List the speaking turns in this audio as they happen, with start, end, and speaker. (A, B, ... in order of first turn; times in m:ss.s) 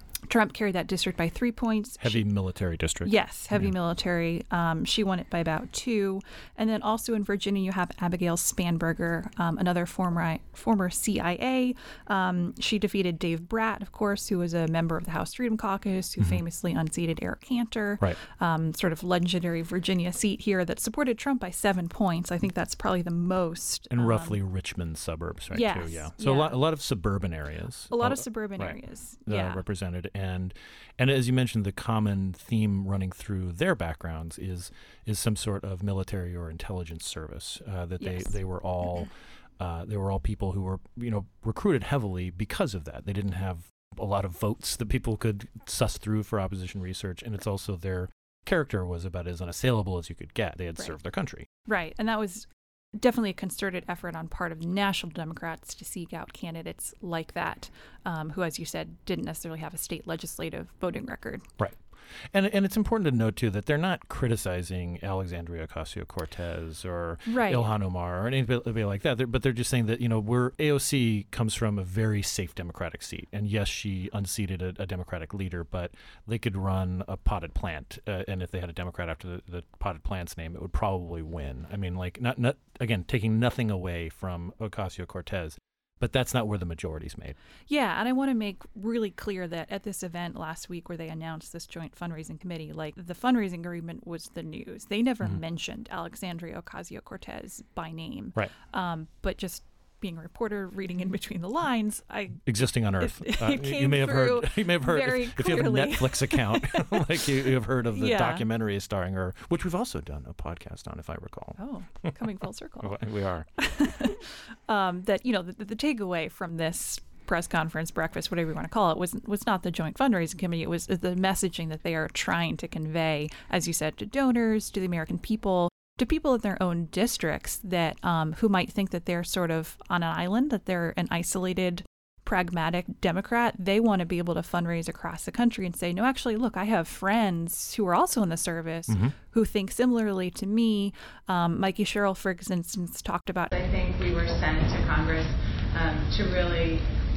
0:00.3-0:02.2 A
0:02.0-0:03.8 B
0:03.0-0:24.4 A
0:23.9-0:51.5 B
0:25.5-0:26.6 A
0:27.9-0:29.6 A
0:38.0-0:38.4 A
0:51.7-1:01.4 A
1:02.3-1:27.4 B
1:07.3-1:07.7 A
1:27.7-1:47.2 A
1:42.5-1:52.1 B
1:47.9-1:48.5 A
1:51.6-1:53.0 A
1:52.8-1:53.5 B
1:53.6-2:23.5 A
2:18.9-2:19.2 B
2:23.5-2:26.8 C